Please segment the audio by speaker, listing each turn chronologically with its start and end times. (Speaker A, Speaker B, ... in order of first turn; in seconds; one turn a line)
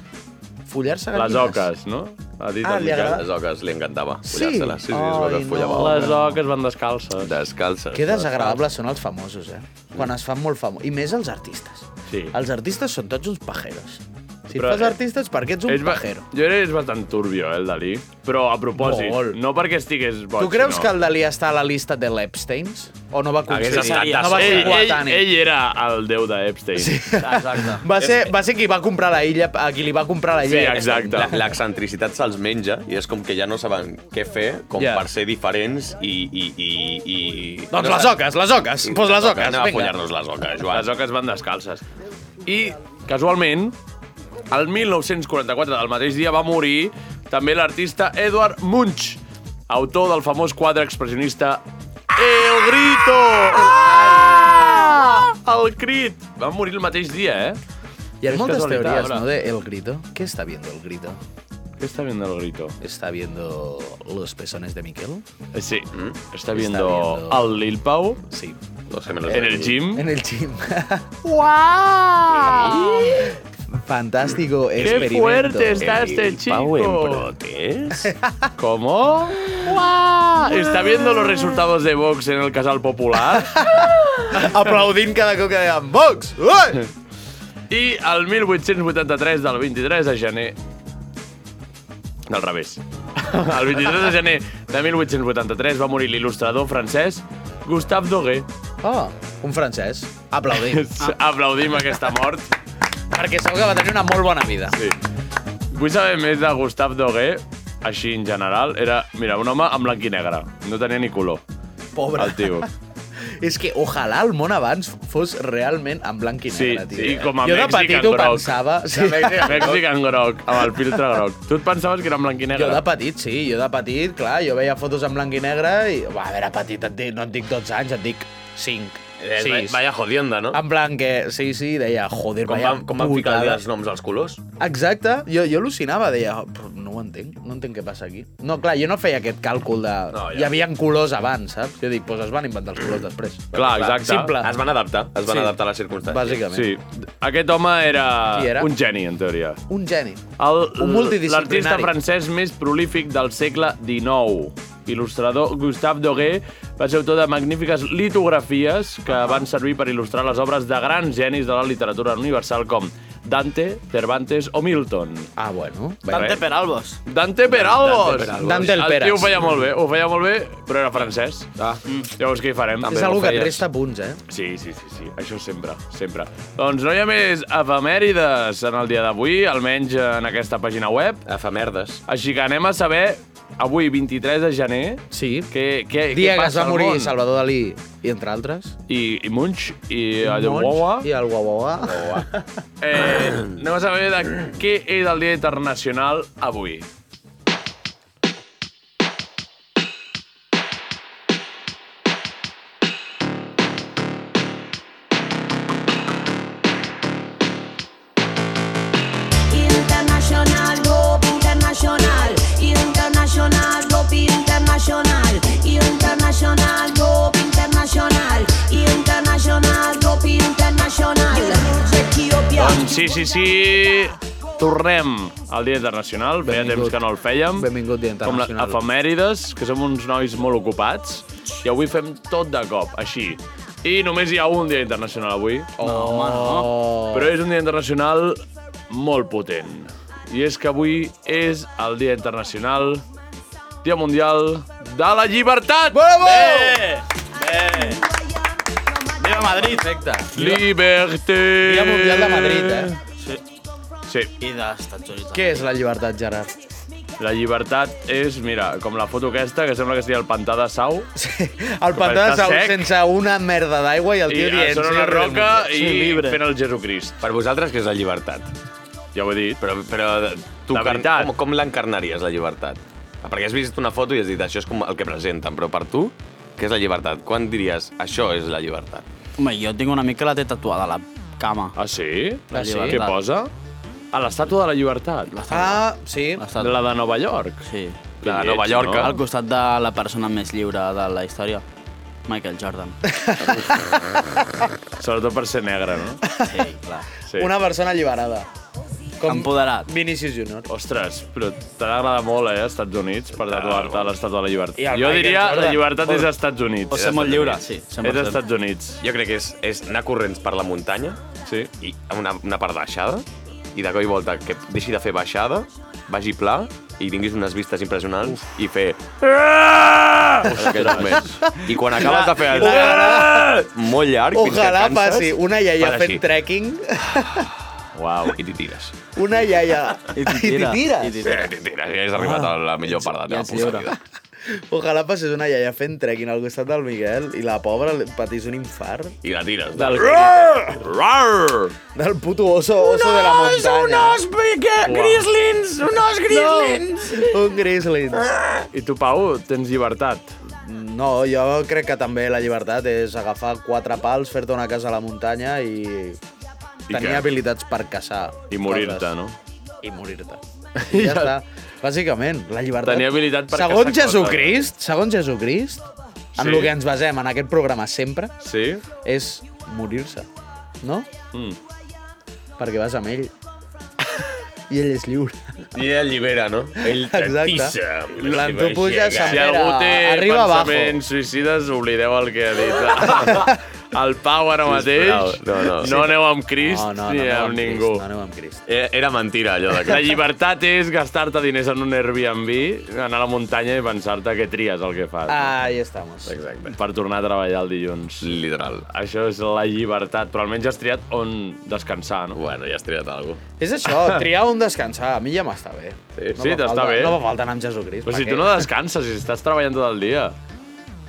Speaker A: 0.7-1.7
Speaker B: 1.1-3.2
Speaker A: 2.6-3.3
Speaker C: 2.9-6.2
Speaker A: 4.2-6.4
Speaker B: 5.6-7.3
Speaker C: 7.2-8.6
Speaker A: 7.9-16.2
Speaker B: 12.1-12.3
Speaker B: 14.5-14.9
Speaker B: 15.7-20.9
Speaker A: 18.8-19.4
Speaker A: 20.4-25.3
Speaker C: 23.5-24.9
Speaker D: 23.7-24.4
Speaker B: 24.2-27.0
Speaker A: 26.7-31.4
Speaker D: 27.2-27.8
Speaker C: 28.0-28.3
Speaker B: 30.4-31.4
Speaker C: 31.1-38.1
Speaker A: 34.7-35.1
Speaker A: 37.7-40.0
Speaker C: 38.8-40.9
Speaker B: 40.7-41.8
Speaker B: 42.4-43.7
Speaker B: 44.5-51.6
Speaker B: 52.1-57.6
Speaker A: 53.6-54.5
Speaker A: 58.2-61.2
Speaker B: 58.2-59.2
Speaker B: 61.8-62.8
Speaker A: 62.8-65.2
Speaker B: 65.5-68.2
Speaker A: 66.5-67.5
Speaker A: 68.3-68.6
Speaker C: 68.9-69.8
Speaker B: 69.2-70.0
Speaker A: 69.9-71.2
Speaker B: 71.2-73.3
Speaker C: 72.3-73.2
Speaker A: 73.7-75.9
Speaker B: 74.8-77.3
Speaker C: 75.8-78.1
Speaker A: 77.9-78.5
Speaker B: 78.6-83.6
Speaker A: 83.4-86.8
Speaker B: 87.7-90.5
Speaker B: 92.3-98.5
Speaker A: 98.8-101.1
Speaker B: 100.6-102.5
Speaker A: 103.1-104.8
Speaker B: 105.7-111.4
Speaker A: 111.9-112.7
Speaker B: 112.2-112.7
Speaker A: 113.2-119.8
Speaker B: 116.5-118.6
Speaker C: 118.9-119.8
Speaker B: 119.4-122.8
Speaker A: 122.5-129.8
Speaker C: 129.2-130.6
Speaker A: 130.5-133.6
Speaker C: 132.4-134.4
Speaker A: 134.6-144.5
Speaker C: 140.1-140.6
Speaker C: 143.5-146.4
Speaker B: 143.5-144.4
Speaker A: 145.2-146.7
Speaker B: 146.5-149.6
Speaker A: 148.3-148.7
Speaker A: 149.7-150.2
Speaker B: 150.4-165.3
Speaker A: 150.8-151.9
Speaker A: 165.4-166.4
Speaker D: 166.1-167.0
Speaker B: 166.1-166.4
Speaker B: 167.1-171.5
Speaker C: 167.5-168.7
Speaker A: 168.3-169.4
Speaker B: 172.2-173.1
Speaker C: 172.8-173.6
Speaker A: 172.8-174.2
Speaker B: 174.3-181.2
Speaker C: 181.2-182.0
Speaker B: 182.1-187.1
Speaker A: 185.1-185.5
Speaker A: 186.1-188.8
Speaker B: 188.9-191.1
Speaker A: 190.2-192.4
Speaker C: 191.8-192.2
Speaker B: 192.8-196.8
Speaker E: 209.5-222.6
Speaker B: 222.5-227.7
Speaker A: 226.4-227.0
Speaker A: 227.5-228.8
Speaker B: 228.2-235.7
Speaker A: 235.8-237.4
Speaker D: 235.8-236.7
Speaker B: 237.1-243.0
Speaker B: 243.8-247.0
Speaker A: 245.9-246.8
Speaker D: 247.4-248.0
Speaker D: 249.2-249.9
Speaker A: 249.5-250.6
Speaker B: 250.3-252.9
Speaker A: 251.6-252.9
Speaker D: 254.4-255.6
Speaker A: 255.3-256.5
Speaker B: 257.2-261.1
Speaker A: 261.1-265.7
Speaker B: 261.9-262.9
Speaker B: 264.3-267.1
Speaker D: 265.7-266.4
Speaker C: 267.2-268.5
Speaker B: 269.1-269.6
Speaker C: 269.6-279.1
Speaker B: 270.7-271.3
Speaker D: 279.4-281.8
Speaker B: 281.8-283.5
Speaker A: 282.5-283.0
Speaker D: 282.5-283.2
Speaker B: 284.1-285.3
Speaker D: 285.3-285.9
Speaker A: 285.5-286.4
Speaker D: 286.4-286.8
Speaker B: 286.6-287.6
Speaker D: 287.6-288.0
Speaker B: 288.2-289.1
Speaker C: 288.2-289.2
Speaker D: 289.0-291.6
Speaker D: 292.3-293.0
Speaker A: 293.1-294.4
Speaker B: 295.0-296.2
Speaker A: 296.3-296.6
Speaker D: 296.4-297.1
Speaker B: 297.3-297.5
Speaker A: 297.4-298.5
Speaker A: 299.2-300.7
Speaker D: 299.2-299.9
Speaker B: 300.7-307.4
Speaker C: 303.4-304.1
Speaker A: 304.8-306.3
Speaker D: 306.9-308.4
Speaker C: 306.9-307.6
Speaker B: 308.0-309.0
Speaker C: 309.0-311.2
Speaker C: 311.8-326.2
Speaker B: 320.4-321.4
Speaker A: 321.4-323.7
Speaker D: 322.1-322.4
Speaker A: 324.3-327.5
Speaker B: 327.9-328.4
Speaker C: 328.2-328.9
Speaker A: 329.1-331.3
Speaker D: 330.1-331.5
Speaker C: 331.2-334.0
Speaker A: 332.1-332.5
Speaker D: 333.1-333.9
Speaker A: 334.4-339.2
Speaker C: 339.2-341.7
Speaker B: 339.7-340.9
Speaker A: 341.9-344.2
Speaker C: 342.8-347.4
Speaker B: 344.8-345.3
Speaker A: 346.3-348.3
Speaker C: 348.3-348.6
Speaker B: 348.7-350.3
Speaker A: 350.5-356.2
Speaker B: 356.9-357.3
Speaker A: 356.9-359.1
Speaker B: 358.5-359.3
Speaker A: 359.8-368.3
Speaker B: 360.8-361.4
Speaker B: 362.8-364.6
Speaker B: 366.4-366.7
Speaker B: 368.4-368.8
Speaker A: 369.0-370.3
Speaker A: 370.8-371.1
Speaker B: 371.3-371.6
Speaker A: 372.6-373.3
Speaker A: 374.7-375.7
Speaker C: 375.7-379.4
Speaker A: 376.8-381.0
Speaker B: 378.2-388.0
Speaker C: 384.6-386.0
Speaker A: 385.8-388.6
Speaker C: 388.7-390.2
Speaker B: 389.8-395.5
Speaker A: 395.3-396.4
Speaker C: 396.2-396.8
Speaker B: 396.7-398.4
Speaker C: 398.2-398.9
Speaker B: 398.9-402.4
Speaker C: 402.3-403.4
Speaker A: 403.6-408.7
Speaker C: 406.1-406.4
Speaker B: 406.4-407.2
Speaker B: 408.1-410.3